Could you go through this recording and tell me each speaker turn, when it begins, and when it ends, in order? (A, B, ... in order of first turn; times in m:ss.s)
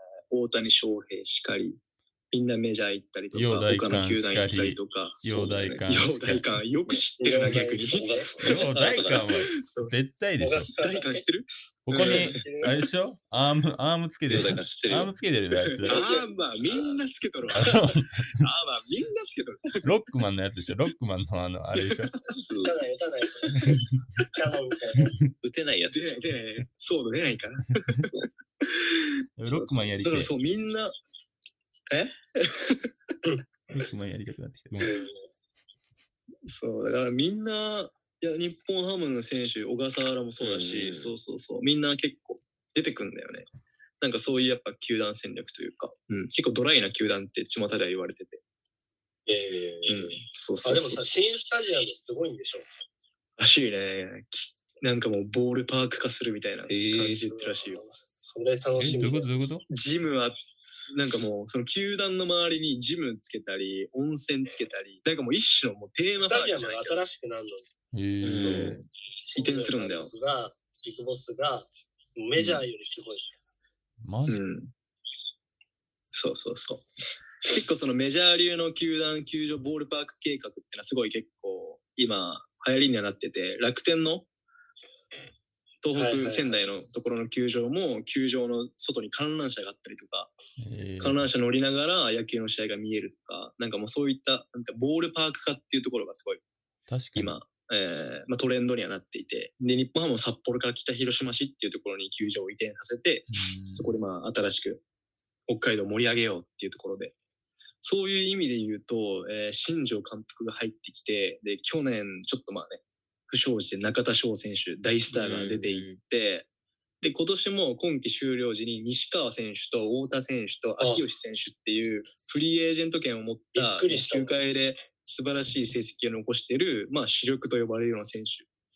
0:00.3-0:01.8 A
0:02.3-0:05.2 A
0:03.3-0:06.5 B
0:05.2-0:05.9 C
0:05.8-0:08.6 A
0:07.2-0:08.4 D
0:07.9-0:09.3 C
0:08.4-0:10.7 B
0:09.6-0:10.0 A
0:10.4-0:11.2 D
0:10.8-0:12.4 A
0:11.9-0:16.0 B
0:12.0-0:12.8 D
0:14.3-0:15.1 C
0:15.6-0:19.8 A
0:15.8-0:16.9 D
0:17.5-0:18.4 B
0:19.8-0:22.1 B
0:22.4-0:22.8 C
0:22.6-0:25.2 D
0:23.5-0:23.8 B
0:25.4-0:26.3 C
0:25.9-0:28.0 A
0:28.6-0:29.1 A
0:29.4-0:30.3 B
0:29.4-0:29.9 C
0:30.0-0:30.9 A
0:31.9-0:32.9 A
0:33.7-0:35.0 B
0:34.8-0:35.2 D
0:36.4-0:43.4 A
0:40.4-0:41.2 C
0:44.0-0:48.4 A
0:49.3-0:52.8 D
0:49.9-0:51.0 A
0:53.4-0:57.8 A
0:56.7-0:57.2 C
0:57.1-0:59.3 D
0:58.8-0:59.6 B
0:58.8-0:59.1 C
0:59.7-1:00.4 A
1:00.9-1:07.0 A
1:06.2-1:07.7 D
1:07.9-1:08.8 B
1:08.2-1:08.8 C
1:08.3-1:08.8 A
1:09.2-1:13.4 D
1:09.4-1:10.1 A
1:12.3-1:12.6 C
1:14.0-1:14.4 B
1:14.3-1:14.7 A
1:16.1-1:16.8 A
1:17.4-1:24.2 A
1:25.8-1:30.3 A
1:25.9-1:26.7 D
1:30.6-1:31.3 B
1:31.0-1:36.4 A
1:36.9-1:37.3 B
1:37.1-1:44.8 A
1:43.3-1:43.9 B
1:45.5-1:47.1 A
1:47.8-1:56.5 A
1:55.1-1:56.0 C
1:57.0-2:08.4 A
2:00.8-2:01.0 D
2:03.6-2:04.3 D